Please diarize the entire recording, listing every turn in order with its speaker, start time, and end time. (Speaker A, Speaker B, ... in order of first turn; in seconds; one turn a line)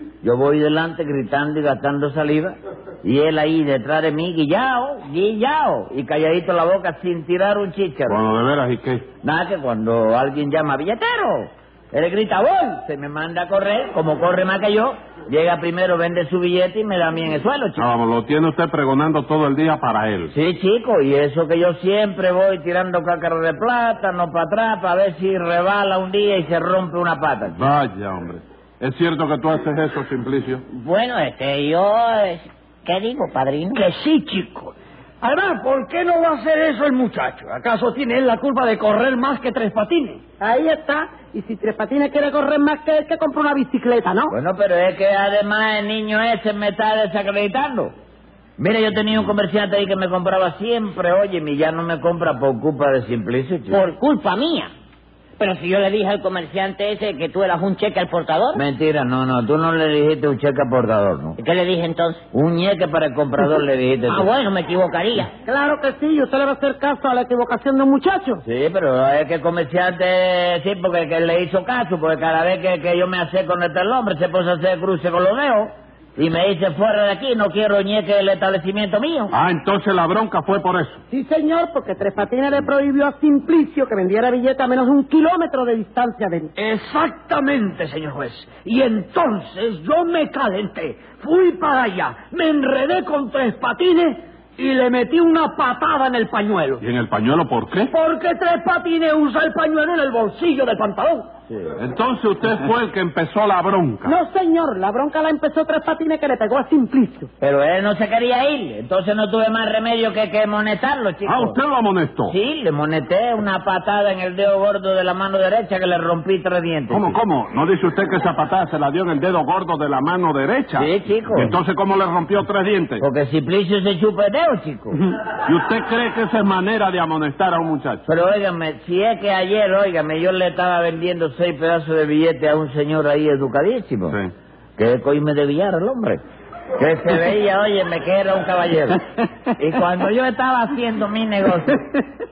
Speaker A: 0.2-8.2
Speaker B: 8.1-9.1
Speaker A: 9.2-17.8
Speaker B: 17.8-20.3
Speaker A: 20.3-27.6
Speaker B: 27.5-30.6
Speaker C: 30.7-33.8
Speaker D: 33.7-40.2
Speaker E: 40.4-44.3
Speaker A: 44.3-47.9
Speaker A: 48.6-53.8
Speaker C: 53.7-54.7
Speaker C: 55.4-58.6
Speaker A: 58.5-61.4
Speaker C: 61.4-62.2
Speaker A: 62.3-64.3
Speaker C: 64.1-65.3
Speaker E: 65.5-68.4
Speaker A: 68.4-79.3
Speaker B: 79.3-81.0
Speaker E: 81.1-86.5
Speaker D: 86.6-96.8
Speaker B: 96.8-97.9
Speaker D: 97.9-101.3
Speaker B: 101.8-104.2
Speaker E: 104.0-107.3
Speaker A: 107.4-111.6
Speaker B: 111.2-112.3
Speaker A: 112.3-117.2
Speaker B: 116.9-123.0
Speaker A: 120.8-121.5
Speaker A: 123.0-125.0
Speaker B: 125.3-128.0
Speaker A: 128.1-134.2
Speaker A: 134.8-136.2
Speaker A: 136.8-139.0
Speaker A: 139.5-141.9